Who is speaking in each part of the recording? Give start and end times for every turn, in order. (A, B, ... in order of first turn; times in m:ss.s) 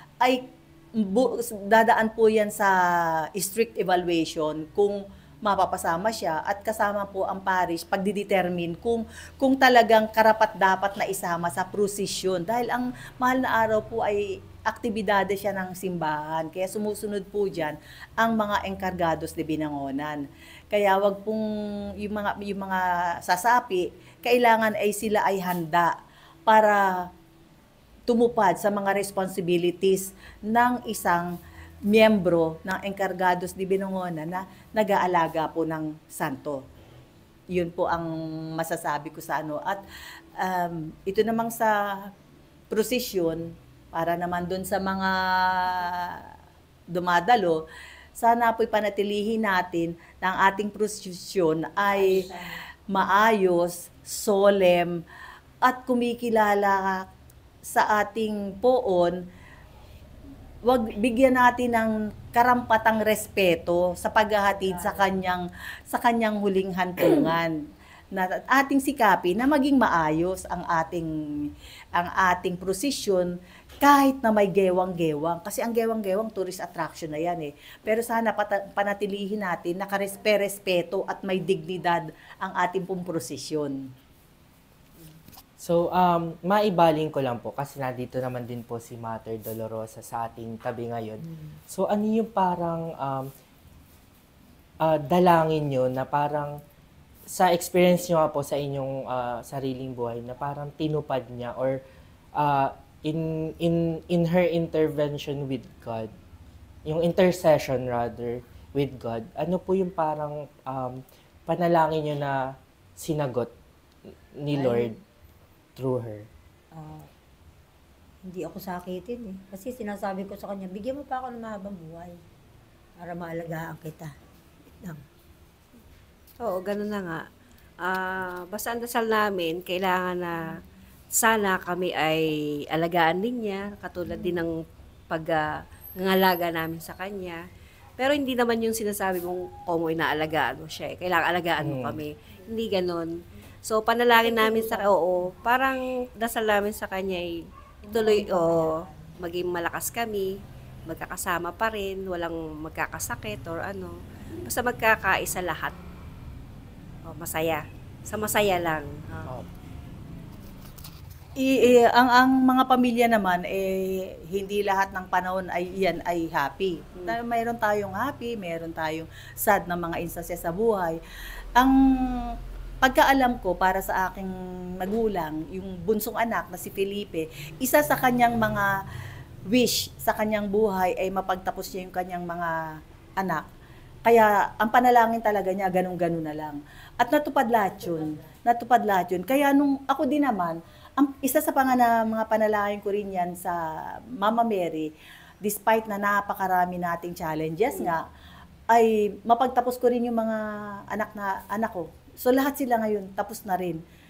0:00.2-0:21.5 A
0:22.0-0:26.0 A
0:26.5-0:27.1 A
0:28.1-0:31.4 A
0:31.9-0:36.6 A
0:37.5-0:39.8 A
0:40.4-0:42.1 A
0:42.7-0:46.3 A
0:46.9-0:47.6 A
0:48.2-0:52.3 A
0:51.9-0:52.6 B
0:52.9-0:55.0 A
0:55.6-0:57.1 A
0:57.7-0:59.2 A
1:00.6-1:07.6 A
1:04.5-1:05.2 B
1:08.1-1:23.9 A
1:25.6-1:33.3 C
1:34.8-1:36.6 C
1:37.3-1:41.8 C
1:42.4-1:46.1 C
1:46.9-1:53.5 C
1:54.4-1:55.0 C
1:54.5-1:54.9 B
1:55.8-1:56.3 C
1:56.7-1:57.1 B
1:58.2-2:02.2 B
2:03.0-2:04.1 B
2:06.4-2:07.3 D
2:07.8-2:10.6 D
2:11.1-2:14.6 D
2:15.1-2:17.4 D
2:18.0-2:23.1 D
2:21.6-2:22.0 C
2:23.7-2:30.3 D
2:24.2-2:24.9 B
2:27.8-2:29.1 B
2:30.9-2:35.8 D
2:37.0-2:39.0 D
2:41.4-2:51.0 A
2:51.6-2:58.8 A
2:59.5-3:03.5 A
3:04.1-3:14.9 A
3:15.4-3:18.1 A
3:18.7-3:23.8 A